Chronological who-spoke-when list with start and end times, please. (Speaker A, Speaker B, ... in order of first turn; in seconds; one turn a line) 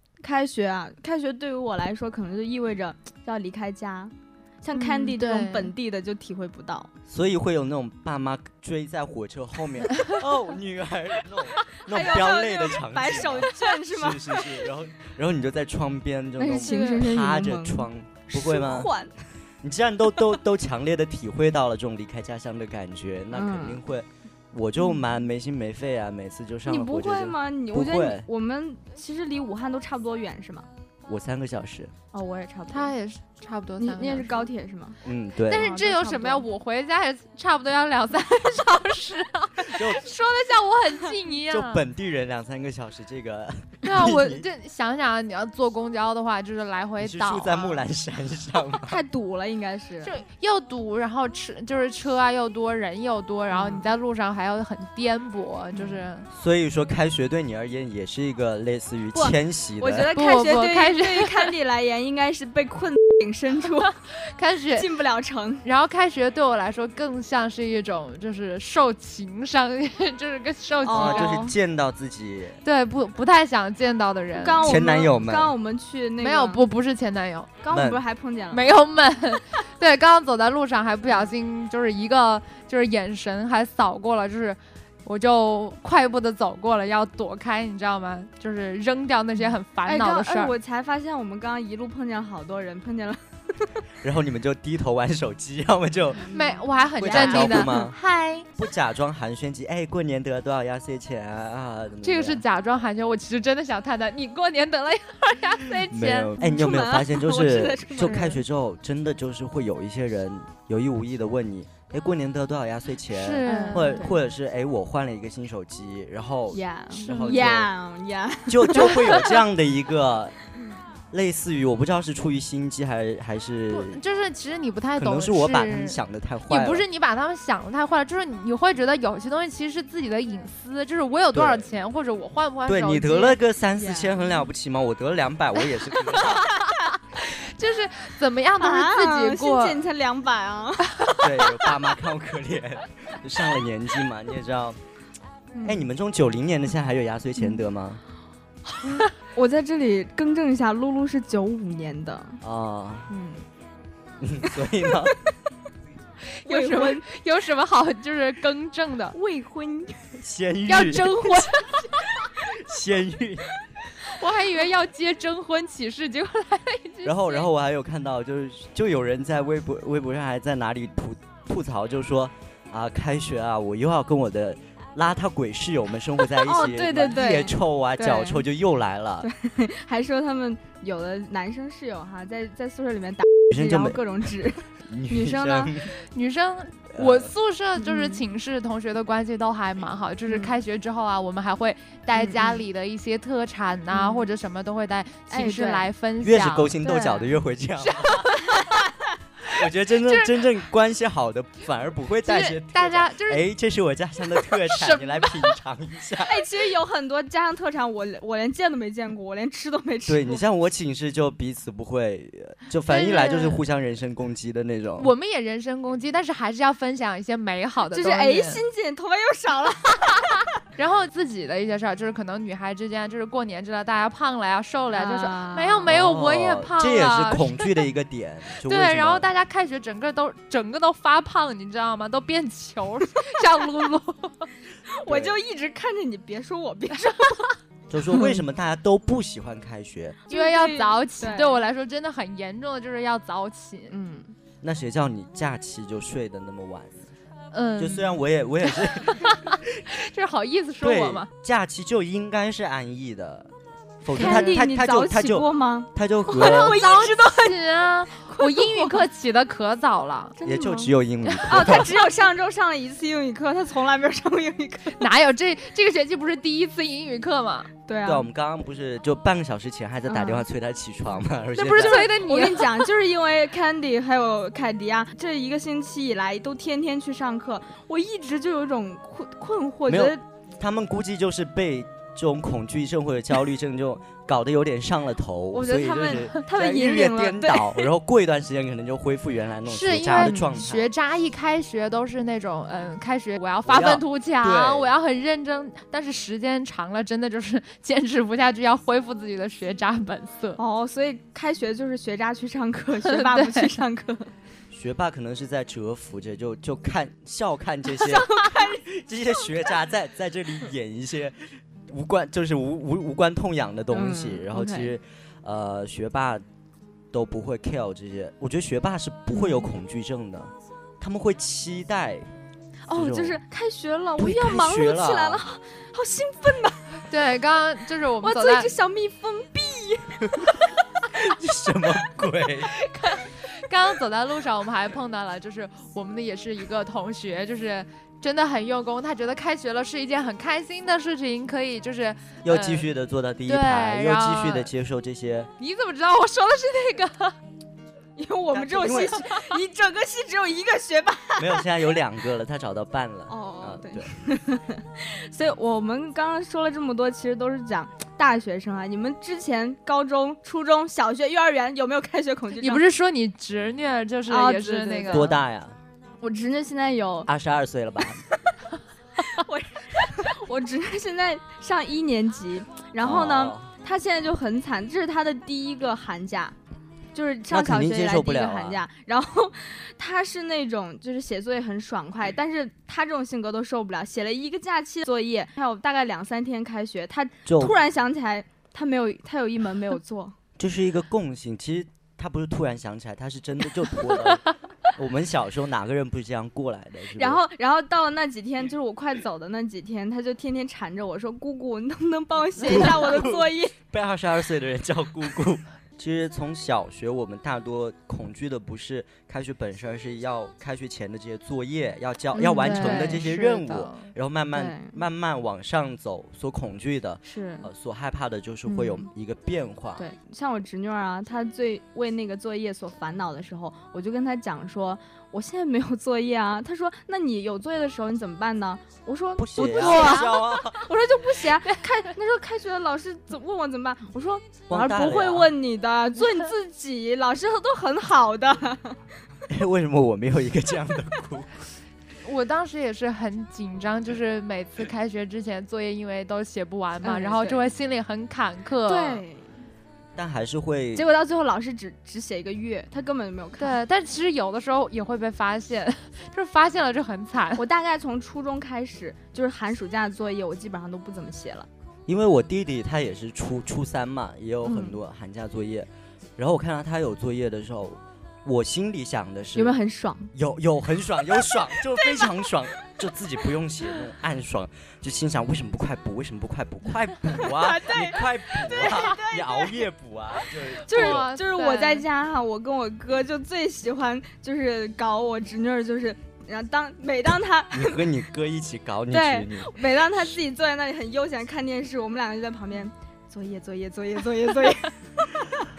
Speaker A: 0.2-6.9
Speaker B: 4.7-5.7
Speaker C: 7.1-18.9
Speaker A: 11.9-14.6
Speaker A: 16.4-19.2
Speaker B: 16.6-17.0
Speaker C: 19.6-28.3
Speaker A: 23.3-23.8
Speaker A: 26.7-30.7
Speaker C: 31.1-31.9
Speaker A: 32.1-32.9
Speaker B: 32.7-34.5
Speaker A: 33.8-35.0
Speaker C: 35.0-35.7
Speaker B: 35.5-41.8
Speaker A: 35.5-36.5
Speaker C: 39.7-40.1
Speaker C: 41.5-44.5
Speaker B: 43.8-47.8
Speaker C: 47.0-49.0
Speaker A: 48.8-50.1
Speaker B: 50.0-56.3
Speaker A: 53.5-53.9
Speaker A: 55.7-56.0
Speaker C: 56.3-60.1
Speaker A: 59.1-63.9
Speaker B: 60.1-61.5
Speaker B: 64.3-64.9
Speaker A: 64.8-65.7
Speaker B: 65.6-71.4
Speaker A: 70.8-71.5
Speaker C: 70.9-72.6
Speaker B: 72.6-74.7
Speaker A: 74.4-76.6
Speaker C: 74.6-75.5
Speaker B: 76.2-77.6
Speaker A: 77.6-78.7
Speaker C: 77.7-78.0
Speaker B: 78.5-90.5
Speaker A: 89.8-93.7
Speaker C: 94.0-96.2
Speaker A: 96.2-97.9
Speaker B: 96.3-98.5
Speaker C: 97.0-98.0
Speaker C: 98.6-102.4
Speaker B: 102.0-106.3
Speaker C: 105.9-117.7
Speaker A: 106.4-108.2
Speaker B: 108.0-108.4
Speaker B: 113.1-114.1
Speaker A: 113.5-114.1
Speaker A: 116.5-119.4
Speaker B: 117.0-117.5
Speaker C: 118.5-120.3
Speaker C: 121.1-124.0
Speaker B: 123.7-133.4
Speaker C: 125.0-126.9
Speaker C: 131.3-131.7
Speaker C: 132.7-136.5
Speaker A: 133.8-134.2
Speaker B: 137.1-139.8
Speaker A: 138.6-141.2
Speaker B: 141.0-141.2
Speaker C: 141.2-144.8
Speaker A: 145.5-145.8
Speaker C: 145.6-148.0
Speaker A: 148.7-152.4
Speaker C: 152.4-153.1
Speaker A: 153.1-153.4
Speaker C: 154.2-155.2
Speaker B: 156.4-159.2
Speaker A: 156.4-157.1
Speaker A: 159.1-160.2
Speaker C: 160.2-161.4
Speaker A: 160.7-161.6
Speaker B: 160.8-161.8
Speaker C: 162.4-163.5
Speaker B: 164.0-167.5
Speaker C: 167.0-179.3
Speaker A: 176.3-178.4
Speaker A: 179.2-185.7
Speaker C: 183.5-184.0
Speaker C: 184.9-185.9
Speaker B: 186.0-196.8
Speaker C: 186.9-187.3
Speaker A: 187.8-188.2
Speaker A: 190.3-190.5
Speaker A: 192.2-192.6
Speaker A: 193.9-194.3
Speaker A: 195.3-195.9
Speaker C: 196.2-198.3
Speaker A: 196.8-197.3
Speaker B: 197.8-198.6
Speaker A: 198.5-198.8
Speaker C: 199.5-206.4
Speaker B: 200.1-200.4
Speaker B: 202.2-203.5
Speaker B: 204.6-205.5
Speaker A: 206.2-210.4
Speaker C: 210.1-215.1
Speaker B: 212.9-213.6
Speaker B: 215.0-218.6
Speaker A: 217.9-220.4
Speaker B: 220.8-227.9
Speaker A: 224.9-225.8
Speaker C: 225.9-229.3
Speaker B: 228.7-234.5
Speaker A: 234.9-237.5
Speaker C: 235.1-235.4
Speaker C: 237.9-240.2
Speaker A: 240.3-241.6
Speaker B: 240.3-243.9
Speaker A: 243.9-244.3
Speaker C: 244.6-247.1
Speaker B: 247.5-251.3
Speaker C: 247.8-249.7
Speaker C: 250.8-256.8
Speaker A: 254.2-257.6
Speaker B: 254.2-254.6
Speaker B: 256.4-260.4
Speaker A: 258.2-259.0
Speaker A: 260.4-260.9
Speaker C: 260.4-261.9
Speaker A: 261.5-265.1
Speaker B: 265.0-267.7
Speaker A: 267.9-268.3
Speaker C: 268.1-272.2
Speaker A: 270.1-270.4
Speaker B: 271.6-272.9
Speaker A: 271.7-280.2
Speaker C: 279.9-290.9
Speaker A: 285.5-287.9
Speaker B: 289.7-300.6
Speaker A: 290.2-290.4
Speaker C: 293.7-294.9
Speaker A: 300.6-304.3
Speaker B: 303.1-303.8
Speaker C: 304.7-316.4
Speaker A: 307.9-308.8
Speaker A: 313.9-314.9
Speaker C: 317.1-322.3
Speaker A: 319.3-319.7
Speaker A: 322.9-327.0
Speaker C: 322.9-323.4
Speaker C: 324.2-325.4
Speaker B: 327.1-328.7
Speaker A: 328.2-330.5
Speaker C: 331.1-332.8
Speaker B: 332.8-342.9
Speaker C: 342.4-345.5
Speaker B: 343.5-344.7
Speaker B: 345.6-347.4
Speaker A: 348.2-351.6
Speaker C: 348.5-349.2
Speaker C: 351.4-354.1
Speaker A: 353.3-362.8
Speaker B: 362.6-365.3
Speaker A: 364.3-365.3
Speaker C: 365.1-365.8
Speaker A: 366.2-367.3
Speaker C: 367.3-368.2
Speaker A: 369.2-376.6
Speaker C: 373.0-373.7
Speaker A: 377.1-390.4
Speaker C: 377.5-378.8
Speaker C: 387.5-387.8
Speaker C: 390.6-397.4
Speaker A: 397.2-403.7
Speaker C: 402.6-420.0
Speaker A: 412.3-413.2
Speaker B: 412.5-414.1
Speaker A: 414.5-415.0
Speaker A: 417.3-417.7
Speaker A: 418.7-419.0
Speaker A: 420.0-439.0
Speaker C: 429.4-430.9
Speaker B: 429.8-430.1
Speaker C: 434.7-435.5
Speaker C: 439.5-441.6
Speaker B: 442.2-449.2
Speaker A: 447.0-447.7
Speaker A: 448.9-449.5
Speaker C: 450.2-451.1
Speaker A: 450.9-453.8
Speaker B: 453.6-457.6
Speaker A: 457.6-461.7
Speaker C: 462.1-469.8
Speaker A: 464.6-465.0
Speaker A: 469.6-470.3
Speaker C: 470.3-481.3
Speaker A: 477.4-479.8
Speaker A: 480.9-488.0
Speaker B: 480.9-482.1
Speaker C: 487.7-490.4
Speaker A: 489.1-495.5